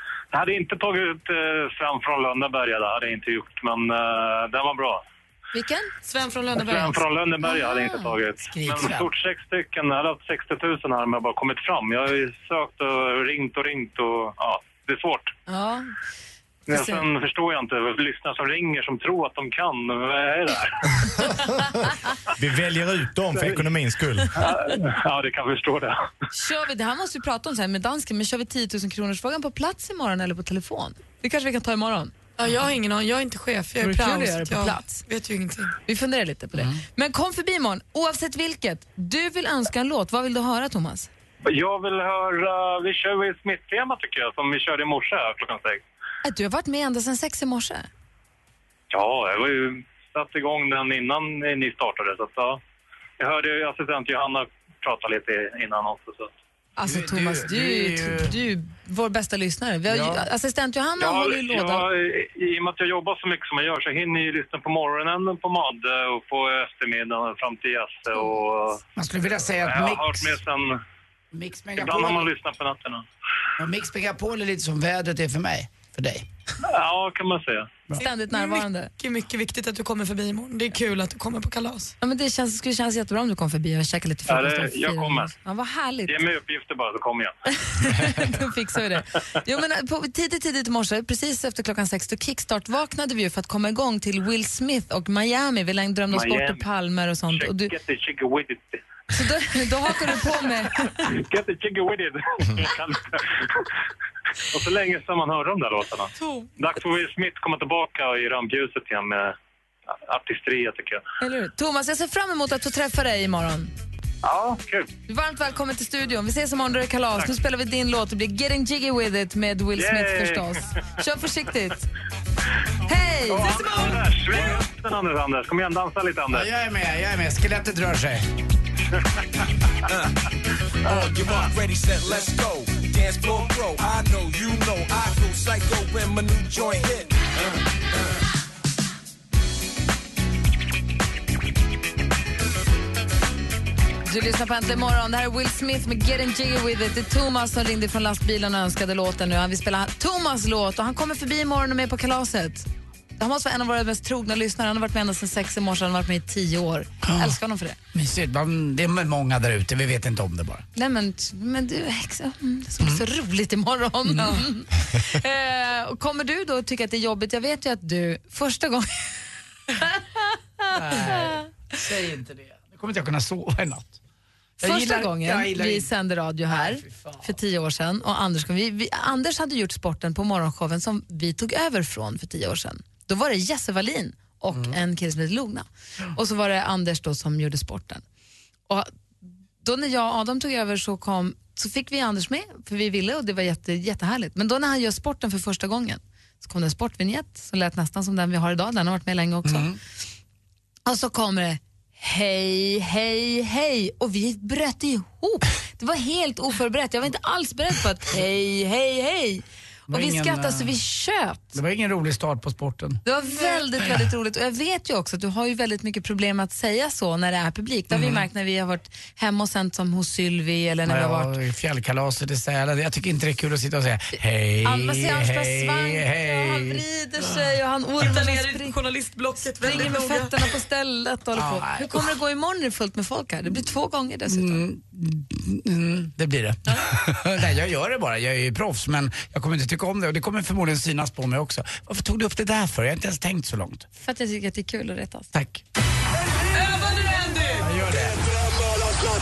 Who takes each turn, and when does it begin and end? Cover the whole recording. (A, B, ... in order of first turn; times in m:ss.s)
0:00.3-0:05.0 A
0:05.5-0:05.9 B
0:06.0-0:07.0 C
0:06.6-0:15.3 A
0:07.4-0:08.2 B
0:08.5-0:09.0 D
0:15.5-0:15.9 B
0:16.7-0:20.9 A
0:16.7-0:17.0 B
0:21.4-0:24.3 E
0:24.4-0:26.1 A
0:26.3-0:32.1 B
0:32.4-0:35.7 C
0:33.8-0:35.0 B
0:35.9-0:41.1 B
0:36.5-0:36.8 D
0:41.4-0:45.8 A
0:46.2-0:47.9 B
0:48.9-0:52.6 A
0:53.2-0:56.3 A
0:56.8-1:01.9 B
0:56.8-0:58.4 D
0:59.9-1:00.3 D
1:01.0-1:08.8 A
1:09.0-1:10.4 D
1:09.5-1:10.8 A
1:11.3-1:12.3 D
1:11.8-1:13.0 A
1:13.6-1:16.3 D
1:16.6-1:17.7 A
1:18.0-1:18.9 B
1:18.0-1:21.9 C
1:22.0-1:26.2 B
1:24.3-1:25.3 A
1:26.1-1:27.3 A
1:27.6-1:37.7 B
1:36.1-1:36.6 A
1:37.3-1:38.8 A
1:39.1-1:41.0 B
1:41.0-1:43.6 A
1:44.5-1:49.4 A
1:46.2-1:46.5 C
1:49.9-1:51.0 A
1:51.2-1:53.7 B
1:54.2-1:54.9 A
1:55.1-2:01.9 B
1:59.8-2:00.6 A
2:02.9-2:03.8 B
2:03.3-2:06.5 A
2:06.3-2:08.3 D
2:10.9-2:17.1 F
2:24.1-2:32.7 B
2:33.2-2:37.8 B
2:37.0-2:37.4 D
2:37.9-2:40.6 D
2:40.8-2:48.9 B
2:50.7-2:54.0 D
2:54.6-2:55.9 D
2:54.6-3:08.0 B
2:56.5-2:57.3 D
3:09.6-3:19.7 B
3:19.4-3:19.8 D
3:20.9-3:31.6 B
3:29.9-3:30.8 D
3:31.5-3:33.0 D
3:33.0-3:41.3 B
3:37.9-3:38.2 D
3:40.9-3:46.8 D
3:44.6-3:48.8 B
3:48.0-3:50.5 C
3:49.6-3:54.6 B
3:51.3-3:52.1 D
3:54.3-4:03.9 D
4:04.0-4:05.3 B
4:05.3-4:05.6 D
4:07.6-4:08.2 D